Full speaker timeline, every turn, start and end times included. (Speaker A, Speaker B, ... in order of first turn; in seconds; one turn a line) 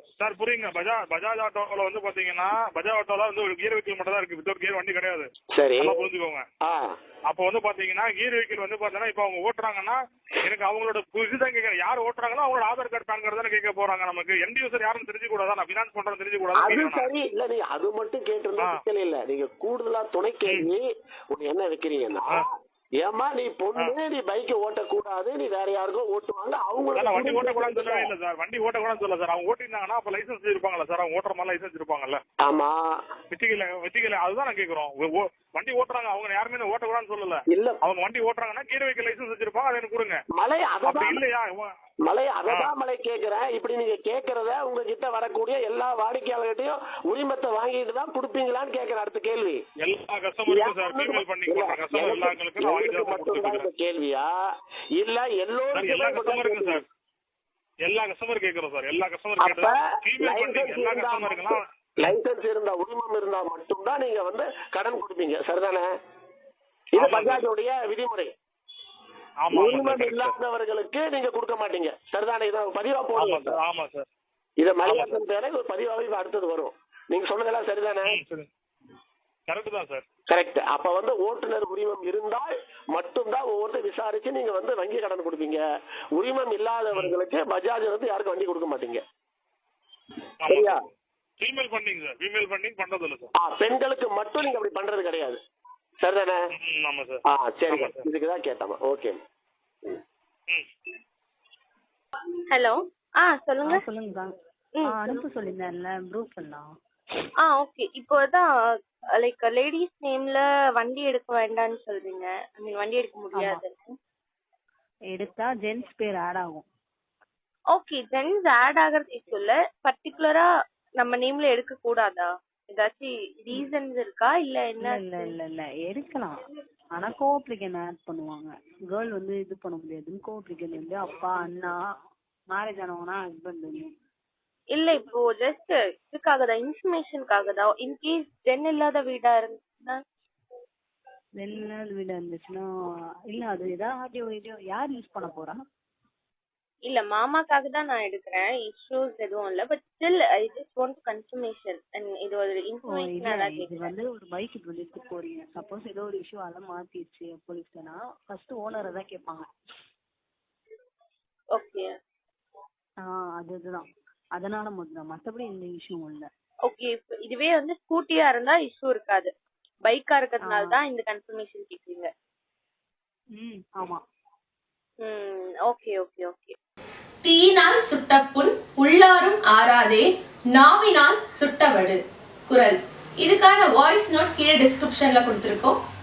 Speaker A: 0.2-6.4
Speaker B: 5.5-6.0
Speaker B: 6.6-6.9
Speaker A: 7.3-17.1
Speaker B: 16.6-22.5
Speaker B: 23.0-28.1
Speaker A: 26.9-32.2
Speaker B: 32.4-33.0
Speaker A: 33.3-40.2
Speaker B: 37.5-37.8
Speaker B: 40.3-41.2
Speaker A: 40.8-41.6
Speaker B: 42.0-49.6
Speaker A: 49.8-53.7
Speaker B: 50.5-54.3
Speaker B: 55.0-56.8
Speaker A: 55.7-56.8
Speaker A: 57.8-62.2
Speaker B: 59.4-65.9
Speaker A: 67.0-67.4
Speaker B: 67.0-68.3
Speaker A: 69.4-70.3
Speaker B: 69.5-73.6
Speaker A: 73.2-74.1
Speaker B: 74.6-78.2
Speaker A: 74.8-75.2
Speaker A: 78.1-78.5
Speaker A: 79.5-80.0
Speaker B: 80.3-85.6
Speaker B: 86.2-89.0
Speaker A: 90.4-90.8
Speaker B: 90.5-90.8
Speaker A: 91.4-93.3
Speaker B: 93.4-95.4
Speaker B: 96.0-96.4
Speaker A: 96.5-98.1
Speaker B: 97.3-99.2
Speaker C: 102.5-103.8
Speaker D: 103.6-104.3
Speaker C: 104.8-105.2
Speaker D: 104.8-106.7
Speaker C: 107.4-108.5
Speaker C: 109.2-114.0
Speaker D: 113.3-113.6
Speaker D: 115.1-116.7
Speaker C: 117.7-120.5
Speaker C: 121.0-125.3
Speaker D: 124.8-126.4
Speaker D: 127.0-131.8
Speaker D: 132.5-133.8
Speaker C: 134.7-140.0
Speaker D: 141.4-142.7
Speaker D: 143.3-145.6
Speaker C: 146.8-153.9
Speaker D: 152.8-159.4
Speaker C: 161.5-161.9
Speaker D: 163.0-166.3
Speaker C: 166.7-169.3
Speaker C: 169.8-172.1
Speaker D: 170.4-170.8
Speaker D: 173.3-174.0
Speaker C: 175.0-176.6
Speaker E: 177.2-185.8